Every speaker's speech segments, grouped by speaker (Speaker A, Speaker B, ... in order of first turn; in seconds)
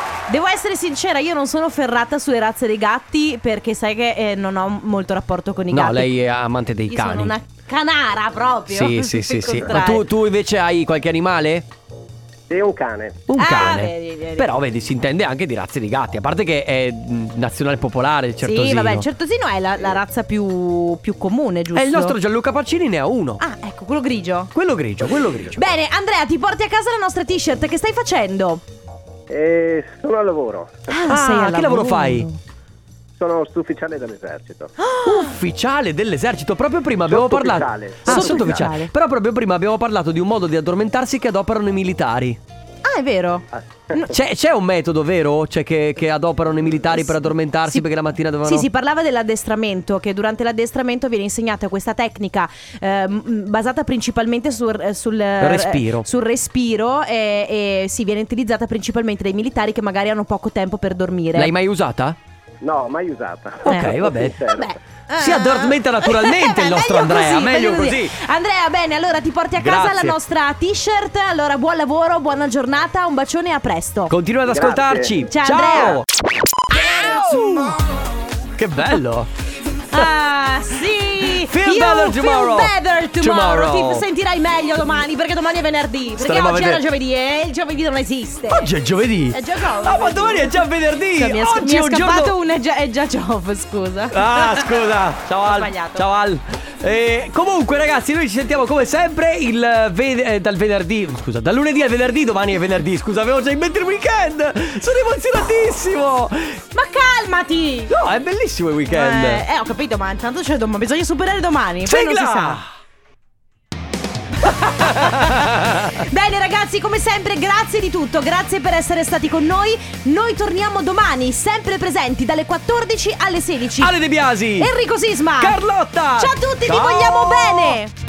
Speaker A: 0.3-6.1, 6.9-10.1, 13.4-14.5, 18.4-22.1, 23.4-24.5, 25.6-28.6, 30.9-32.4, 34.8-35.4, 38.1-38.9, 42.9-44.2, 46.9-47.9, 48.4-61.5, 63.6-74.1, 75.3-76.0, 76.8-77.3, 79.9-88.7, 89.3-94.7, 95.4-96.0, 106.7-107.9, 108.9-112.6, 114.5-115.4, 116.0-124.0, 124.6-125.6, 126.2-127.9
Speaker B: 5.7-7.3, 8.7-11.7, 13.3-19.1, 21.7-23.4, 24.6-25.6, 31.1-32.3, 35.0-42.4, 44.1-48.7, 55.4-56.0, 61.4-62.2, 63.6-64.4, 65.2-68.1, 69.6-70.2, 74.1-77.8, 78.6-79.3, 81.3-84.0, 86.2-86.8, 88.5-92.3, 94.1-106.6, 107.9-109.4, 111.9-112.7, 114.7-116.0, 123.8-124.7, 125.4-127.8
Speaker C: 12.5-13.2, 29.3-30.9, 33.2-34.8, 37.1-38.6, 43.5-44.0, 62.6-64.7, 74.5-75.2